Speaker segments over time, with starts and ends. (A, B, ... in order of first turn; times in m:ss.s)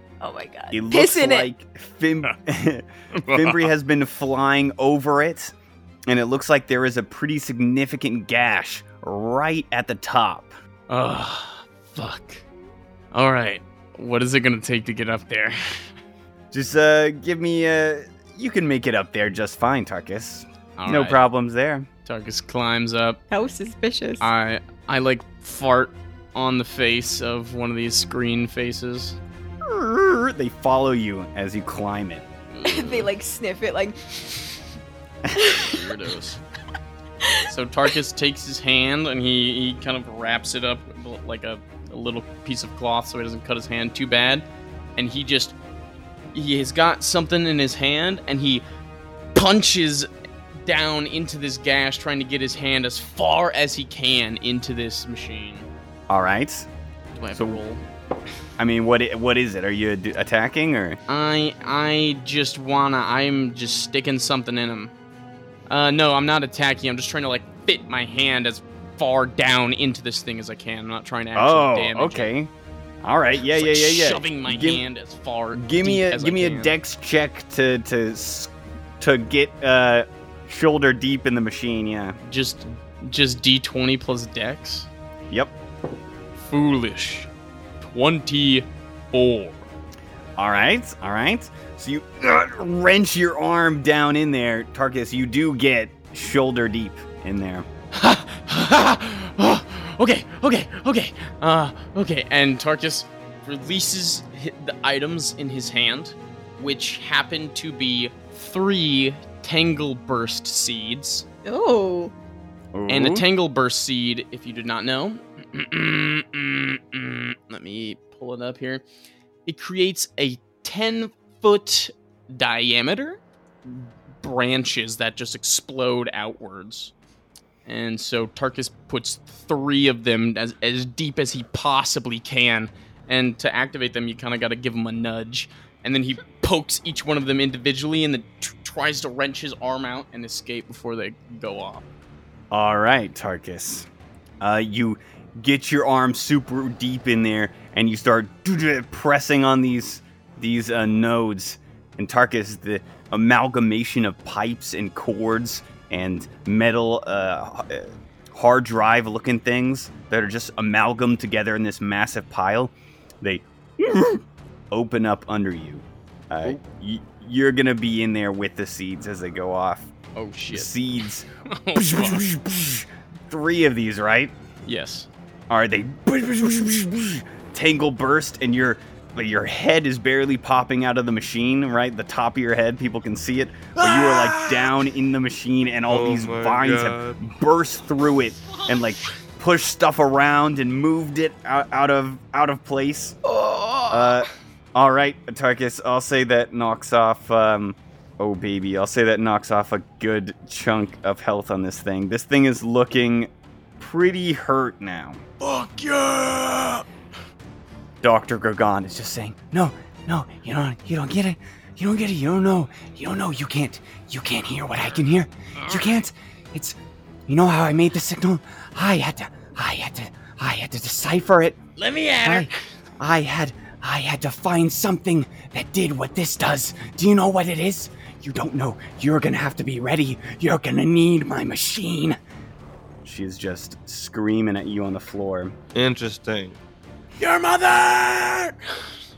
0:00.2-0:01.5 A
0:00.7-0:05.5 B
0:03.1-0:03.7 C
0:06.1-0:10.5 B
0:10.9-0:12.4 C
0:13.1-0:15.9 C
0:16.5-0:21.9 B
0:20.8-0:21.2 C
0:22.0-0:23.2 C
0:23.3-0:24.3 A
0:24.2-0:29.2 C
0:29.6-0:32.2 B
0:32.5-0:33.1 C
0:32.6-0:34.6 A
0:35.4-0:35.9 A
0:35.6-0:36.4 C
0:37.5-0:44.4 C
0:45.0-0:45.6 C
0:46.3-0:48.6 C
0:49.3-0:50.1 C
0:50.7-0:55.7 C
0:56.1-0:56.7 B
0:57.2-0:57.8 C
0:57.3-0:57.6 B
0:58.6-1:01.0 B
1:01.1-1:04.9 C
1:05.7-1:12.3 C
1:11.4-1:12.5 B
1:13.0-1:14.8 B
1:13.4-1:16.7 C
1:15.5-1:22.2 B
1:22.3-1:24.9 C
1:26.4-1:27.3 C
1:27.8-1:29.7 C
1:30.4-1:37.7 B
1:37.9-1:51.3 C
1:51.4-1:52.1 A
1:52.7-1:53.3 B
1:52.9-1:58.8 C
1:59.5-2:06.9 C
2:07.7-2:21.8 C
2:22.5-2:23.9 B
2:24.4-2:49.9 B
2:50.2-2:50.8 C
2:50.5-2:54.3 B
2:51.5-2:52.2 C
2:54.6-2:55.1 C
2:55.5-3:13.2 B
3:03.8-3:04.8 C
3:05.9-3:07.2 D
3:13.3-3:14.2 C
3:13.9-3:25.2 B
3:25.4-3:26.8 C
3:28.0-3:36.8 B
3:35.6-3:36.0 C
3:37.3-3:41.6 B
3:41.8-3:42.5 C
3:42.2-3:52.2 B
3:53.0-3:55.6 B
3:55.7-3:56.6 D
3:57.2-3:58.9 C